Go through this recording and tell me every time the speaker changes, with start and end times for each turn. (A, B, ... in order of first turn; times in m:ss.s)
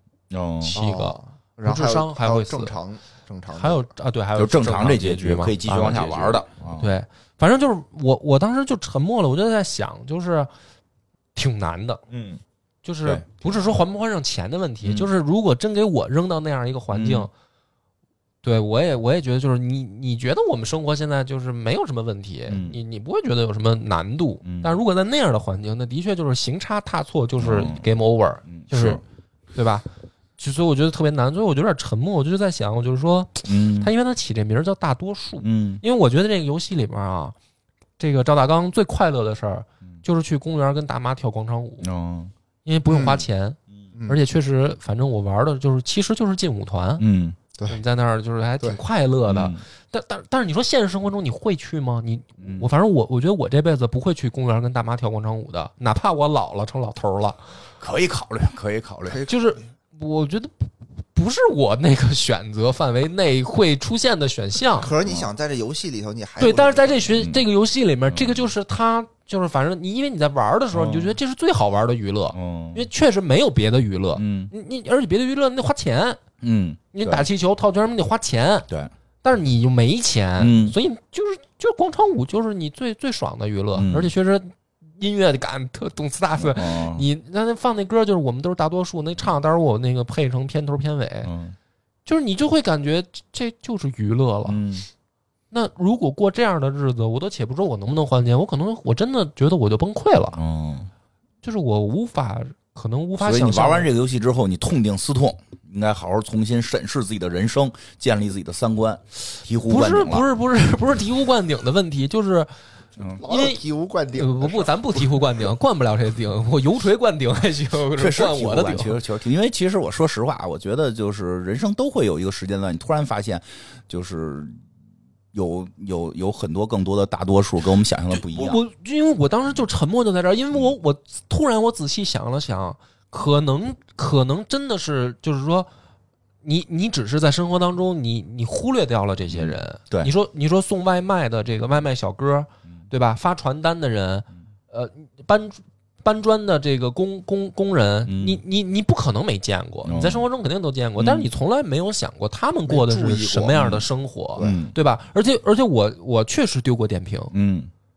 0:00.3-0:00.8 A
0:00.6-0:02.8 B
0:00.7-0:03.9 C
0:03.5-0:10.5 B
0:04.3-0:06.9 A
0:11.3-0:12.0 B
0:12.1-0:12.4 A
0:12.8-0:17.3 B
0:13.0-0:13.7 A
0:14.8-0:15.1 A
0:16.9-0:17.3 A
0:18.4-0:29.0 B
0:22.5-0:22.8 A
0:24.4-0:24.7 A
0:27.4-0:27.8 A
0:28.5-0:29.0 A
0:29.5-0:29.8 B
0:30.4-0:37.3 B
0:33.4-0:33.9 A
0:35.4-0:35.8 A
0:38.0-0:41.9 B
0:41.8-0:42.3 A
0:42.6-0:47.0 B
0:42.9-0:43.2 C
0:47.0-0:47.4 A
0:47.7-0:57.4 B
0:49.3-0:49.6 A
0:52.4-0:52.7 A
0:57.8-0:59.2 A
0:59.1-0:59.6 C
0:59.3-1:04.9 B
1:04.7-1:07.1 C
1:05.0-1:05.3 A
1:06.4-1:16.2 B
1:07.2-1:07.4 A
1:08.1-1:08.5 A
1:10.7-1:11.2 A
1:12.3-1:12.9 A
1:14.2-1:14.5 A
1:16.4-1:17.3 A
1:16.9-1:18.6 B
1:19.2-1:31.3 B
1:20.4-1:20.7 A
1:23.8-1:24.1 A
1:26.4-1:27.0 A
1:31.2-1:31.5 A
1:32.0-1:34.6 B
1:34.5-1:34.9 A
1:35.5-1:40.4 B
1:40.3-1:40.9 A
1:41.4-1:43.9 B
1:43.2-1:50.2 A
1:49.6-1:52.5 B
1:53.0-1:53.2 A
1:53.2-1:54.7 C
1:53.2-1:53.6 B
1:54.1-1:59.0 B
1:57.9-2:04.6 A
2:05.3-2:08.6 A
2:08.1-2:15.7 B
2:16.4-2:37.3 B
2:19.3-2:20.1 A
2:28.0-2:28.4 A
2:29.8-2:30.2 A
2:31.0-2:31.3 A
2:32.7-2:33.6 C
2:33.5-2:33.8 A
2:34.4-2:34.8 A
2:37.3-2:37.7 A